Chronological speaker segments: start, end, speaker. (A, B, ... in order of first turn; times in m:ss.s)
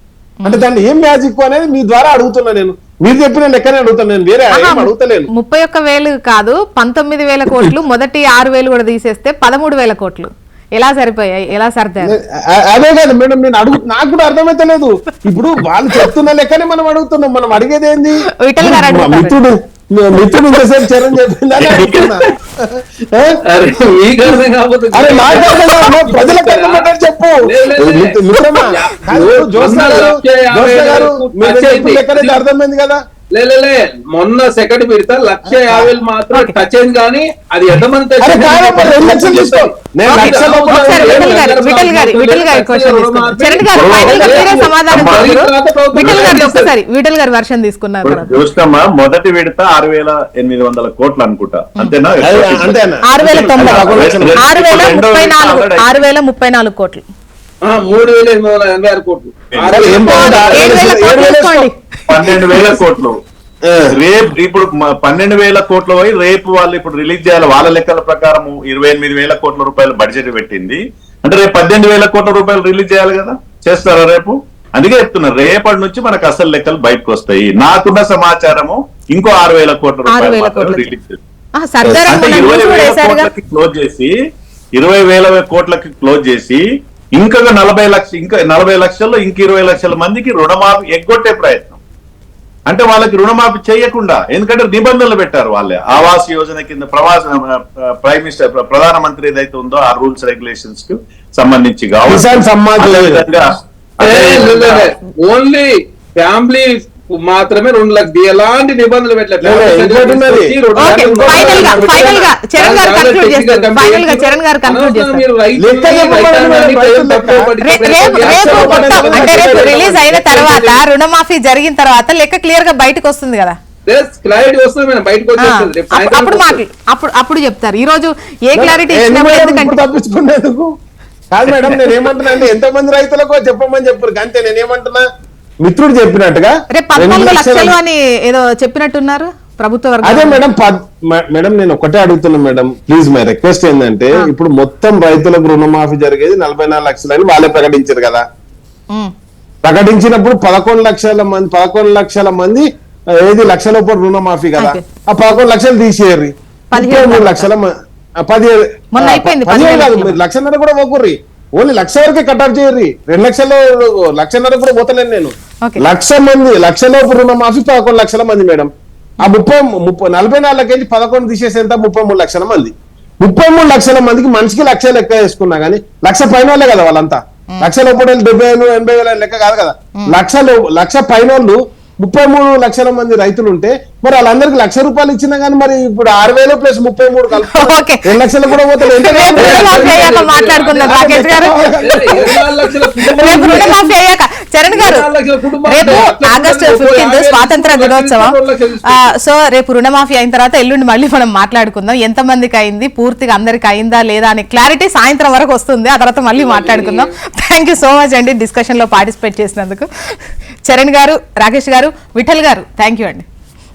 0:00.4-0:05.3 A
0:04.5-0:12.1 B
0:12.0-0:23.4 A
0:18.4-0:19.4 B
0:21.7-0:22.2 C
0:23.5-0:26.9 C
0:24.9-0:33.0 A
0:27.4-0:32.4 C
0:33.3-0:46.7 C
0:35.5-0:35.9 A
0:38.2-0:41.3 A
0:40.1-0:48.4 B
0:43.7-0:45.3 D
0:46.0-0:46.5 D
0:48.0-0:55.9 D
0:52.2-0:54.4 A
0:53.1-0:57.0 B
0:57.6-1:00.8 C
0:59.5-1:00.2 D
0:59.7-1:01.6 A
1:00.0-1:01.8 B
1:02.1-1:03.2 D
1:03.7-1:03.9 A
1:03.9-1:21.2 D
1:20.1-1:20.9 B
1:21.6-1:23.3 B
1:21.8-1:22.1 A
1:22.1-1:24.1 D
1:24.8-1:26.6 D
1:27.2-1:31.8 D
1:32.7-1:43.4 D
1:42.1-1:43.2 A
1:44.0-1:44.9 D
1:44.0-2:00.8 C
1:49.4-1:52.1 A
1:50.8-1:55.2 B
1:55.6-1:57.5 A
1:57.6-2:03.6 B
1:58.0-2:00.0 A
2:03.9-2:06.6 C
2:05.4-2:09.8 B
2:08.6-2:10.7 A
2:11.3-2:15.0 A
2:15.6-2:17.8 A
2:16.7-2:20.4 B
2:20.0-2:28.2 A
2:29.6-2:32.6 A
2:33.2-2:37.7 A
2:34.6-2:34.8 B
2:36.7-2:37.5 B
2:38.2-2:48.7 A
2:38.9-2:40.2 B
2:49.2-3:10.0 A
3:07.4-3:12.3 B
3:09.4-3:11.0 C
3:10.8-3:12.4 A
3:11.8-3:13.9 C
3:13.2-3:15.1 B
3:14.7-3:19.1 C
3:15.6-3:18.4 B
3:18.9-3:29.9 B
3:26.3-3:27.1 C
3:30.7-3:33.2 B